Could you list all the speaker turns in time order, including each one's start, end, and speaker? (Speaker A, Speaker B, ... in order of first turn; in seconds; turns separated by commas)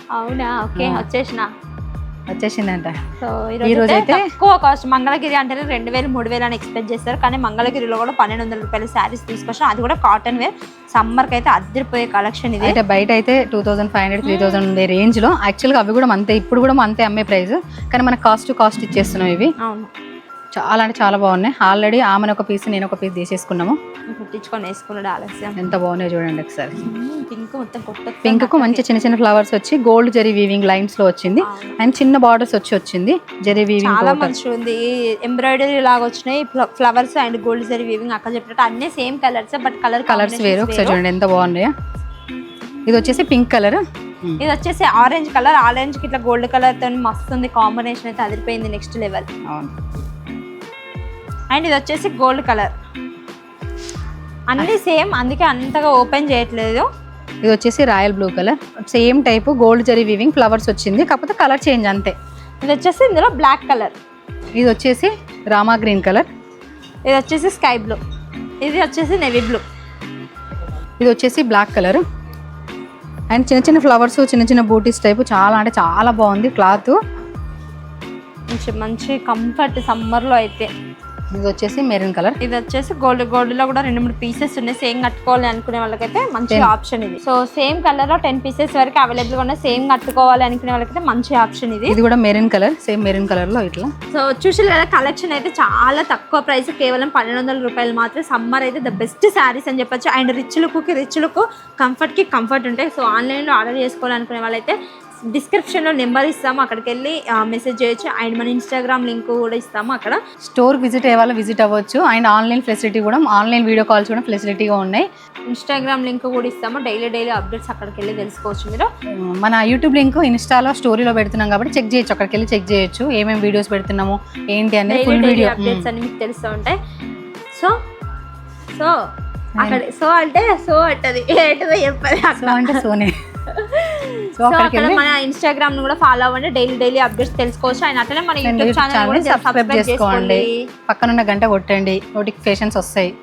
Speaker A: 0.1-1.5, Speaker B: 0.8-1.1, Speaker B: 2.3-3.0, Speaker A: 3.2-12.8, Speaker B: 3.6-4.3, Speaker B: 12.6-19.5, Speaker A: 14.2-14.6, Speaker A: 19.6-19.9, Speaker B: 20.5-23.8, Speaker A: 24.1-25.6, Speaker B: 25.6-26.8, Speaker A: 26.8-28.8, Speaker B: 28.2-34.3, Speaker A: 31.4-31.8, Speaker A: 33.8-41.0, Speaker B: 40.1-41.7, Speaker B: 42.9-44.4, Speaker A: 42.9-43.2, Speaker A: 44.4-49.3, Speaker B: 49.5-49.7, Speaker A: 51.5-52.7, Speaker A: 54.5-56.9, Speaker B: 57.4-62.1, Speaker A: 62.6-63.9, Speaker B: 64.6-66.3, Speaker A: 67.0-68.0, Speaker A: 68.6-69.6, Speaker B: 71.0-72.0, Speaker B: 73.3-77.0, Speaker A: 78.5-80.7, Speaker B: 81.3-82.4, Speaker A: 82.4-92.0, Speaker B: 91.9-93.9, Speaker A: 94.1-104.8, Speaker A: 105.3-110.2, Speaker B: 110.4-115.1, Speaker A: 115.5-118.9, Speaker B: 119.2-125.9, Speaker A: 124.9-126.8, Speaker A: 129.6-132.8, Speaker B: 132.4-133.1, Speaker A: 133.5-140.7, Speaker B: 134.3-135.0, Speaker B: 138.4-143.1